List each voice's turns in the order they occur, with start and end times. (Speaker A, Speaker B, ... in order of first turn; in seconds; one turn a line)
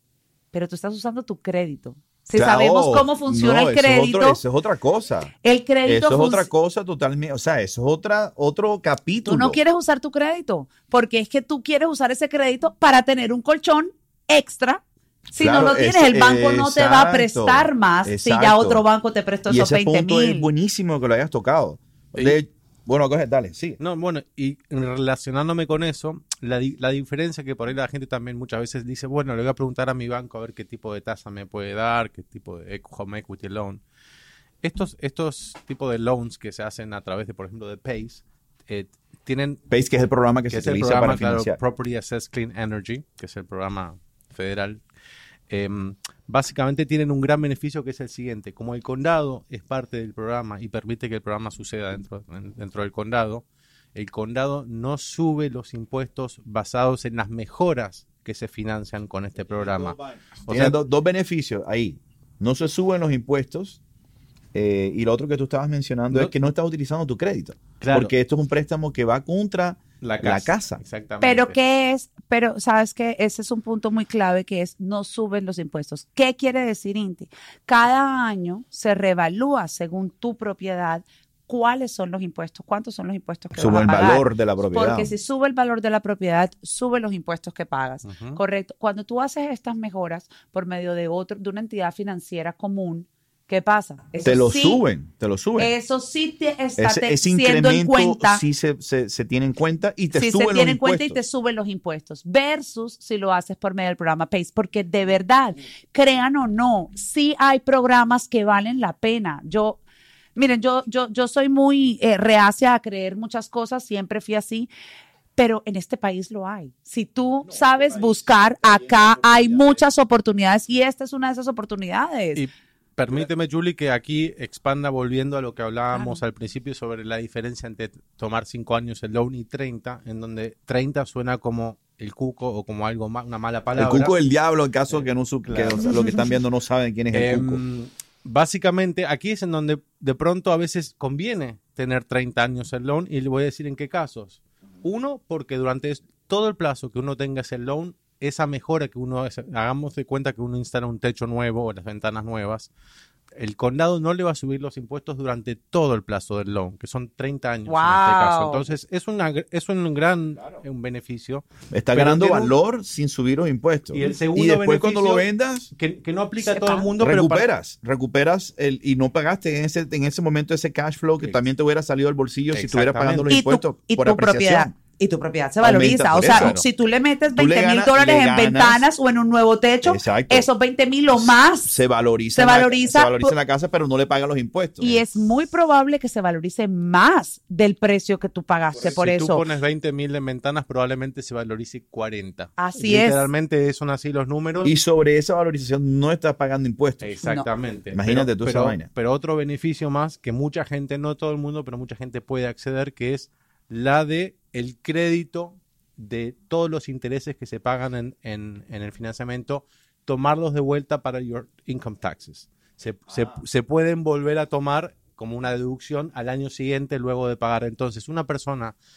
Speaker A: 0.5-4.4
Speaker B: 2.3-5.3
Speaker A: 5.4-6.5
Speaker B: 5.8-9.6
Speaker A: 9.2-20.5
Speaker B: 15.4-18.8
Speaker B: 19.5-23.8
Speaker C: 23.8-33.8
Speaker C: 34.6-39.6
Speaker B: 39.7-41.6
Speaker C: 40.5-44.8
Speaker C: 45.5-60.8
Speaker B: 59.5-63.8
Speaker B: 64.5-70.8
Speaker C: 67.8-68.1
Speaker C: 70.0-71.5
Speaker A: 71.2-94.8
Speaker B: 83.5-85.1
Speaker C: 88.0-88.4
Speaker B: 94.2-95.7
Speaker A: 95.6-98.4
Speaker B: 96.8-101.2
Speaker A: 100.1-109.8
Speaker A: 110.3-114.7
Speaker A: 115.4-122.4
Speaker B: 117.4-119.8
Speaker C: 122.3-134.2
Speaker A: 125.9-126.2
Speaker B: 133.7-137.6
Speaker C: 134.9-136.0
Speaker A: 135.8-136.4
Speaker C: 137.1-152.7
Speaker C: 153.4-162.5
Speaker A: 157.7-158.6
Speaker B: 161.7-165.7
Speaker C: 163.9-167.5
Speaker A: 166.4-166.9
Speaker B: 167.0-174.7
Speaker C: 172.5-173.3
Speaker A: 173.3-181.8
Speaker B: 175.6-176.6
Speaker C: 176.2-176.6
Speaker B: 177.3-178.8
Speaker B: 179.8-180.5
Speaker B: 181.1-185.1
Speaker A: 182.3-183.3
Speaker A: 184.8-189.4
Speaker C: 188.8-194.7
Speaker A: 192.6-193.3
Speaker B: 194.6-197.1
Speaker C: 197.0-218.7
Speaker B: 197.9-198.9
Speaker B: 213.1-213.4